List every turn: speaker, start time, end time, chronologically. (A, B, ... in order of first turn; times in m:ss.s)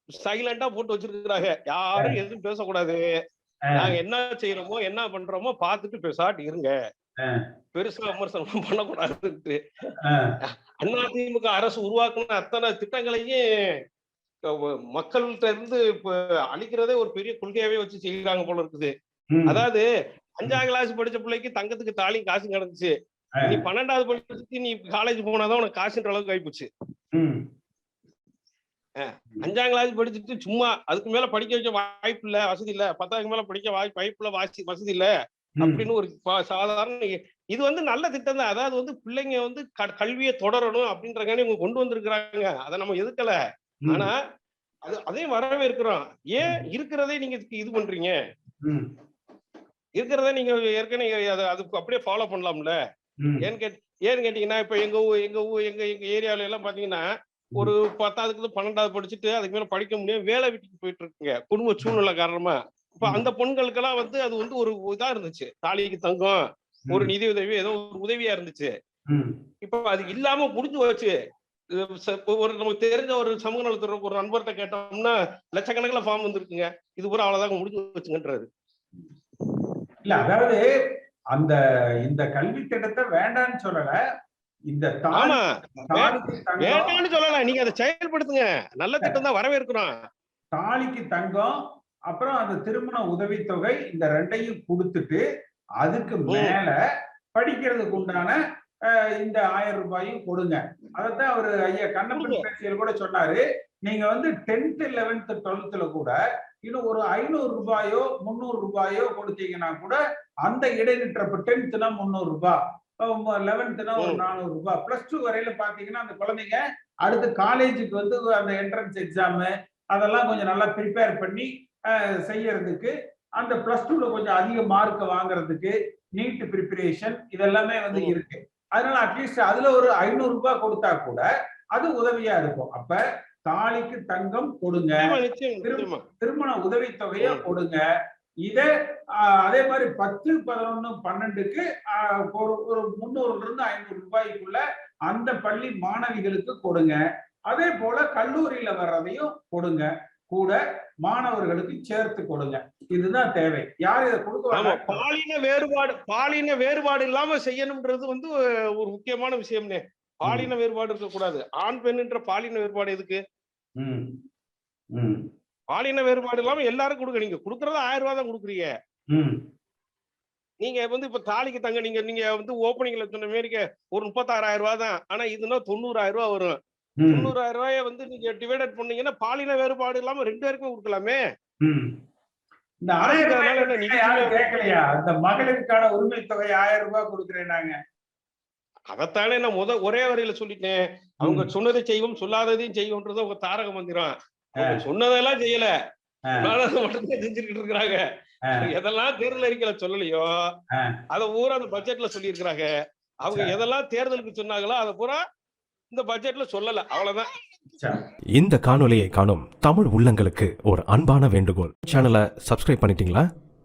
0:00.2-0:03.0 A
0:03.8-0:06.7 A
0:07.7-0:09.6 A
0:10.8-0:13.4 A
0:14.5-0:18.9 A
0:19.3-0:19.6 B
0:19.5-0:19.8 A
0:20.4-0:22.9 A
0:23.5-0:26.7 A
0:27.1-0:27.4 B
0:29.0-0:43.4 A
0:44.9-0:48.2 A
0:48.6-0:48.9 B
0:50.0-0:52.8 A
0:53.4-0:57.0 A
0:57.6-1:08.7 A
1:09.6-1:11.1 A
1:11.8-1:18.5 A
1:20.0-1:20.7 B
1:21.3-1:24.0 B
1:24.7-1:25.3 B
1:25.9-1:26.9 B
1:25.9-1:29.9 A
1:30.5-1:31.5 B
1:32.1-1:35.2 B
1:35.8-1:36.7 B
1:36.3-1:36.6 A
1:37.3-1:38.4 B
1:38.9-2:15.1 B
1:42.2-1:42.4 A
2:15.0-2:16.0 A
2:15.6-2:17.8 B
2:18.4-2:18.7 B
2:19.3-2:35.0 B
2:34.6-2:43.2 A
2:43.8-2:44.1 B
2:44.9-2:45.2 B
2:45.7-2:48.7 A
2:49.1-2:49.4 B
2:50.6-2:56.6 A
2:57.0-2:57.3 B
2:57.1-3:01.2 A
3:01.6-3:01.9 B
3:02.8-3:07.7 B
3:03.0-3:04.6 A
3:08.9-3:15.7 A
3:16.4-3:18.0 A
3:18.6-3:20.3 A
3:21.1-3:22.7 A
3:23.2-3:25.2 A
3:25.9-3:27.3 A
3:28.3-3:33.3 C